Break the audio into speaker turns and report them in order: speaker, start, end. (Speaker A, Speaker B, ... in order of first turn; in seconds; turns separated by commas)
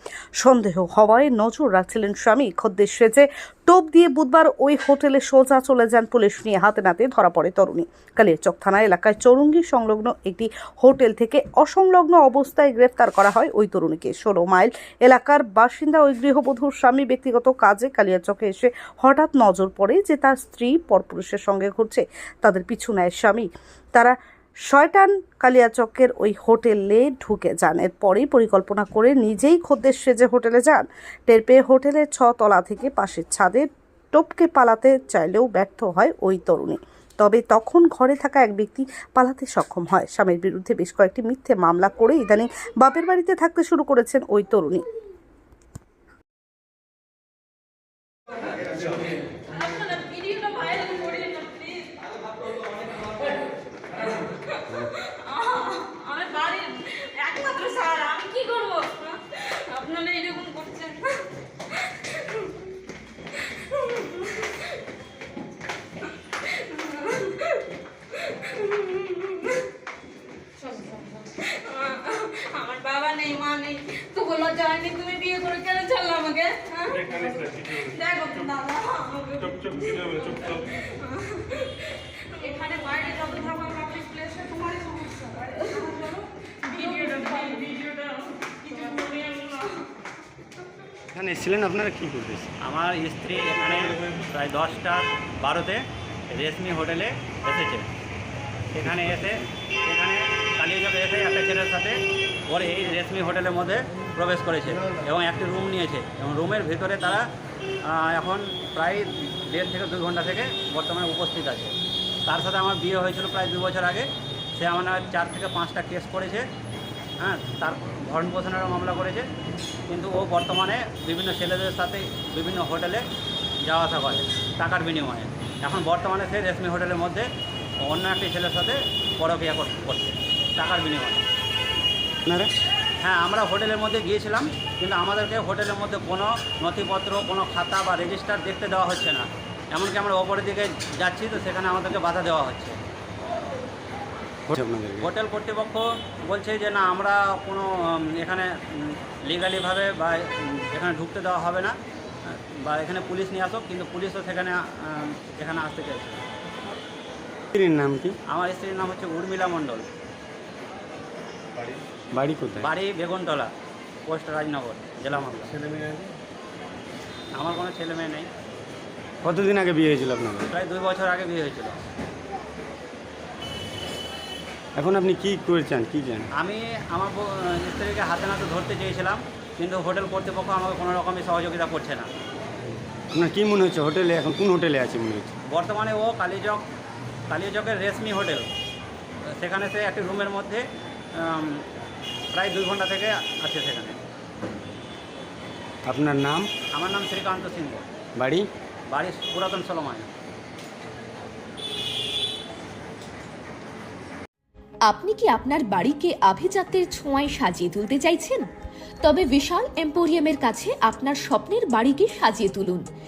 Speaker A: 0.4-24.1, Speaker A: 24.7-44.8, Speaker B: 49.6-51.9, Speaker B: 55.3-59.1, Speaker B: 59.7-61.1, Speaker B: 71.7-76.8, Speaker B: 78.0-79.4, Speaker B: 81.3-81.6, Speaker B: 82.4-86.2, Speaker B: 86.7-89.7, Speaker C: 91.1-92.5, Speaker D: 92.6-97.9, Speaker D: 98.7-102.0, Speaker C: 98.9-99.4, Speaker D: 102.5-107.2, Speaker D: 107.9-116.5, Speaker D: 117.2-119.2, Speaker D: 119.9-123.0, Speaker D: 123.6-127.2, Speaker D: 127.8-131.2, Speaker C: 132.2-132.5, Speaker D: 133.0-142.8, Speaker C: 144.5-145.1, Speaker D: 145.0-151.8, Speaker D: 152.3-156.2, Speaker C: 157.5-158.2, Speaker D: 158.3-159.9, Speaker C: 161.6-162.7, Speaker D: 162.6-163.5, Speaker D: 164.1-165.5, Speaker D: 167.3-168.3, Speaker C: 169.2-170.5, Speaker D: 170.5-171.8, Speaker C: 174.8-176.3, Speaker D: 176.4-182.1, Speaker C: 183.1-185.3, Speaker D: 185.5-186.6, Speaker D: 187.3-188.5, Speaker D: 189.4-190.6, Speaker D: 191.2-191.6, Speaker D: 192.3-194.0, Speaker C: 195.8-196.5, Speaker D: 196.7-197.8, Speaker C: 198.2-198.5, Speaker D: 198.9-200.1, Speaker E: 204.8-208.5, Speaker E: 209.0-212.8